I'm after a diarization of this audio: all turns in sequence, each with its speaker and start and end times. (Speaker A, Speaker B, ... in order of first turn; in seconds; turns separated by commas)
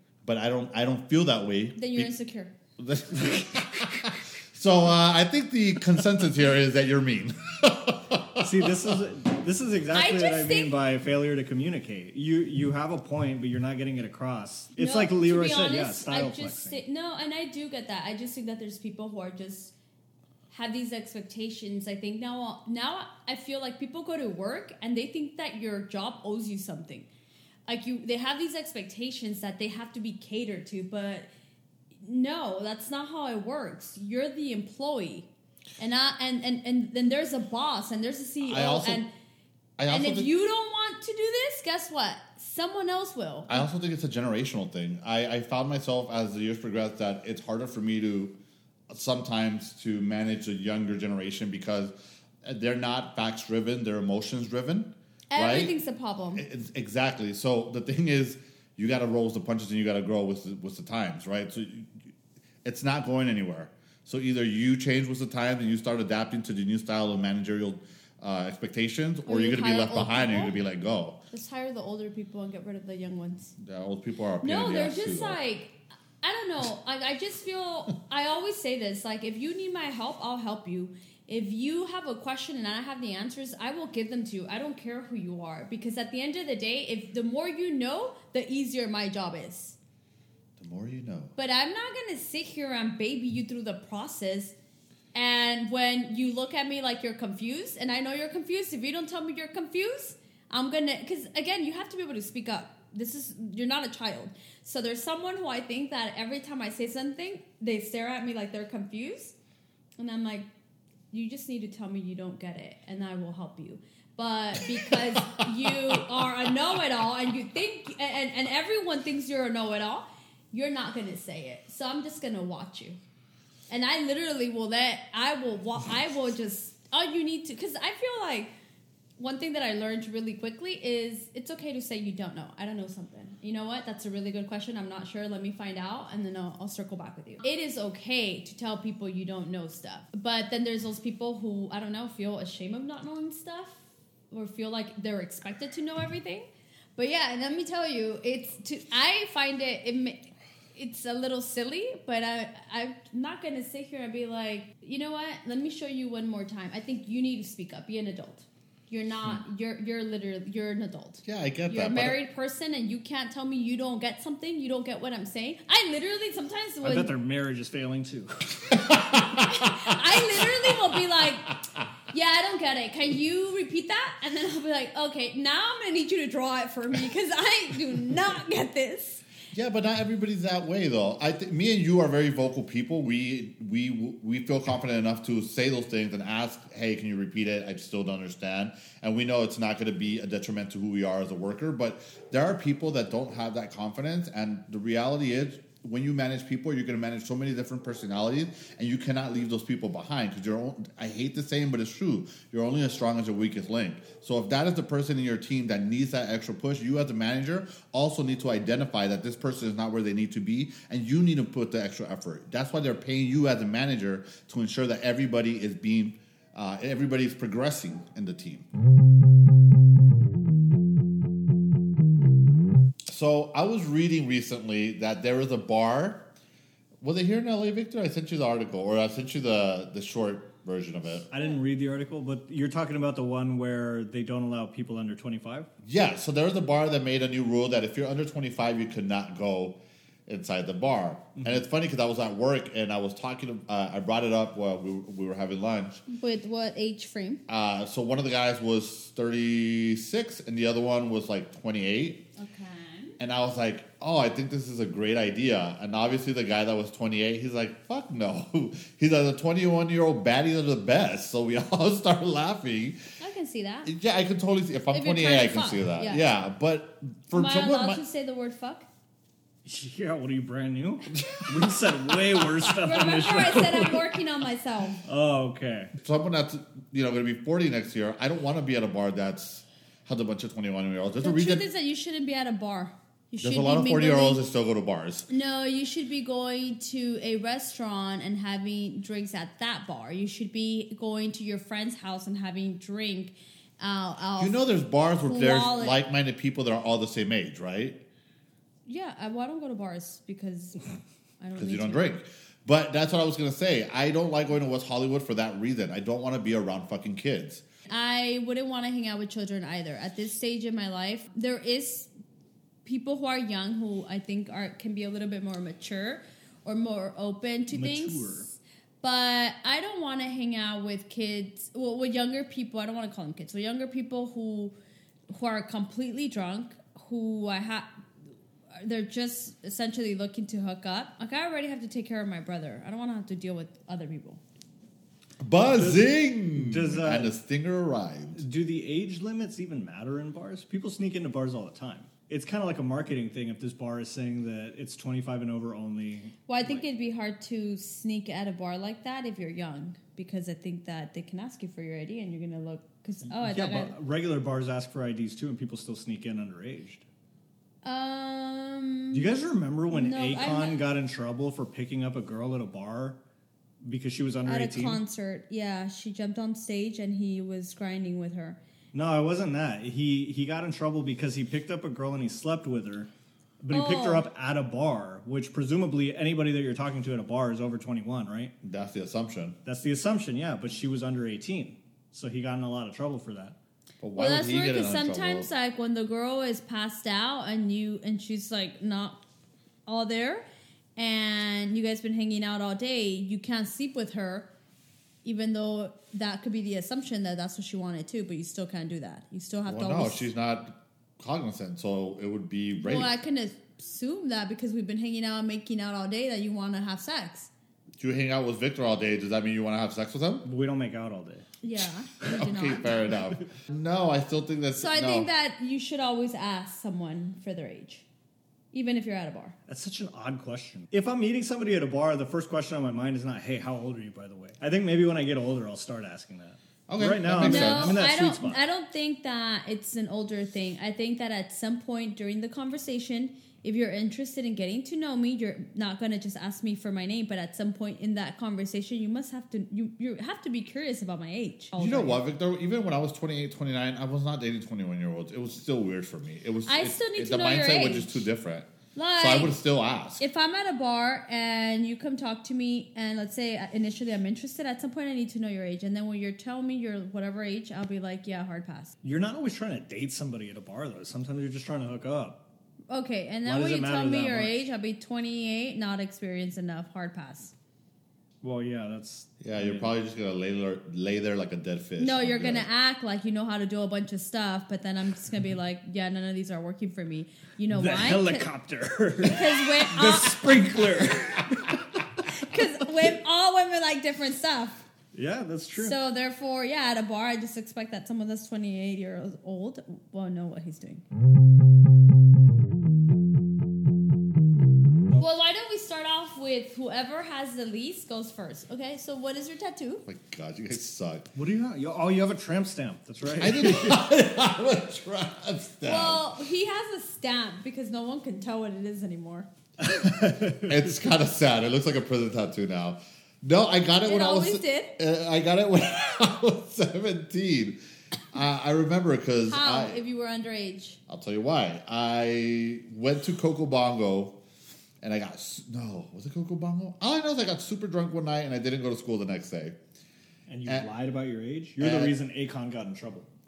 Speaker A: 0.2-2.1, Speaker B: 1.8-2.5, Speaker A: 2.8-8.9, Speaker C: 8.4-16.8, Speaker B: 9.9-10.8, Speaker B: 14.8-19.7, Speaker B: 20.5-27.1, Speaker B: 27.7-31.3, Speaker B: 32.0-39.1, Speaker A: 38.4-39.0, Speaker A: 39.8-40.3, Speaker B: 39.9-43.6, Speaker A: 43.5-48.3, Speaker A: 48.9-55.7, Speaker B: 55.3-56.4, Speaker A: 56.4-62.0, Speaker A: 62.6-71.2, Speaker B: 69.3-70.5, Speaker B: 71.3-73.5, Speaker A: 73.6-75.4, Speaker B: 74.4-89.8, Speaker A: 90.6-91.3, Speaker B: 91.3-94.5, Speaker B: 95.1-109.3, Speaker B: 110.0-110.5, Speaker B: 111.1-123.0, Speaker B: 123.7-128.5, Speaker B: 129.2-167.1, Speaker A: 161.2-162.2, Speaker C: 166.8-168.7, Speaker A: 168.7-170.0, Speaker B: 169.3-171.5, Speaker B: 172.1-179.2, Speaker A: 179.5-218.7, Speaker A: 223.1-226.2, Speaker A: 227.0-231.3, Speaker C: 231.3-235.7, Speaker A: 235.8-246.0, Speaker B: 246.1-247.4, Speaker A: 247.5-252.2, Speaker B: 252.3-253.2, Speaker A: 253.2-263.0, Speaker B: 263.2-263.9, Speaker A: 263.9-268.0, Speaker B: 264.9-266.2, Speaker B: 267.3-268.9, Speaker C: 269.6-274.1, Speaker B: 272.8-275.0, Speaker C: 275.0-275.9, Speaker A: 276.0-281.6, Speaker B: 281.2-284.4, Speaker A: 283.4-285.3, Speaker B: 285.3-294.6, Speaker A: 294.4-298.0, Speaker B: 295.2-296.0, Speaker B: 298.9-300.8, Speaker B: 301.4-302.1, Speaker A: 301.6-307.6, Speaker B: 307.9-312.1, Speaker B: 312.8-318.5, Speaker C: 317.7-318.5, Speaker B: 319.0-324.7, Speaker B: 325.3-327.9, Speaker B: 328.7-334.4, Speaker A: 335.4-338.4, Speaker C: 335.7-337.3, Speaker C: 338.3-346.9, Speaker B: 346.5-353.9, Speaker C: 353.3-357.0, Speaker B: 357.8-359.2, Speaker C: 359.1-363.2, Speaker B: 359.9-360.8, Speaker C: 363.8-365.0, Speaker B: 364.4-368.6, Speaker C: 368.9-373.1, Speaker C: 373.6-378.5, Speaker B: 373.7-374.3, Speaker A: 378.6-379.6, Speaker C: 379.6-383.6, Speaker A: 384.0-385.5, Speaker B: 384.1-389.2, Speaker B: 389.9-390.4, Speaker B: 390.9-394.5, Speaker B: 395.2-400.3, Speaker A: 399.7-403.1, Speaker B: 402.8-407.5, Speaker A: 408.0-410.4, Speaker C: 410.4-411.5, Speaker B: 411.6-413.1, Speaker A: 412.3-415.3, Speaker B: 414.8-418.0, Speaker B: 418.7-419.5, Speaker C: 419.7-428.6, Speaker A: 426.9-428.0, Speaker B: 427.4-442.2, Speaker A: 441.8-450.2, Speaker B: 446.6-448.2, Speaker B: 448.9-449.6, Speaker B: 450.2-458.9, Speaker C: 459.0-462.4, Speaker B: 462.9-467.5, Speaker C: 463.4-464.6, Speaker C: 468.4-469.9, Speaker A: 469.4-472.6, Speaker B: 472.0-478.5, Speaker C: 477.7-482.0, Speaker B: 479.2-480.6, Speaker B: 482.3-484.8, Speaker C: 485.1-485.9, Speaker B: 485.8-491.0, Speaker B: 495.2-500.0, Speaker A: 500.1-501.3, Speaker C: 501.3-504.0, Speaker A: 503.4-506.2, Speaker B: 505.8-509.5, Speaker C: 509.8-510.8, Speaker A: 510.6-517.8, Speaker B: 514.0-515.0, Speaker A: 518.3-520.0, Speaker B: 519.5-521.0, Speaker A: 521.1-524.4, Speaker A: 525.0-529.8, Speaker C: 530.5-533.3, Speaker A: 531.8-532.1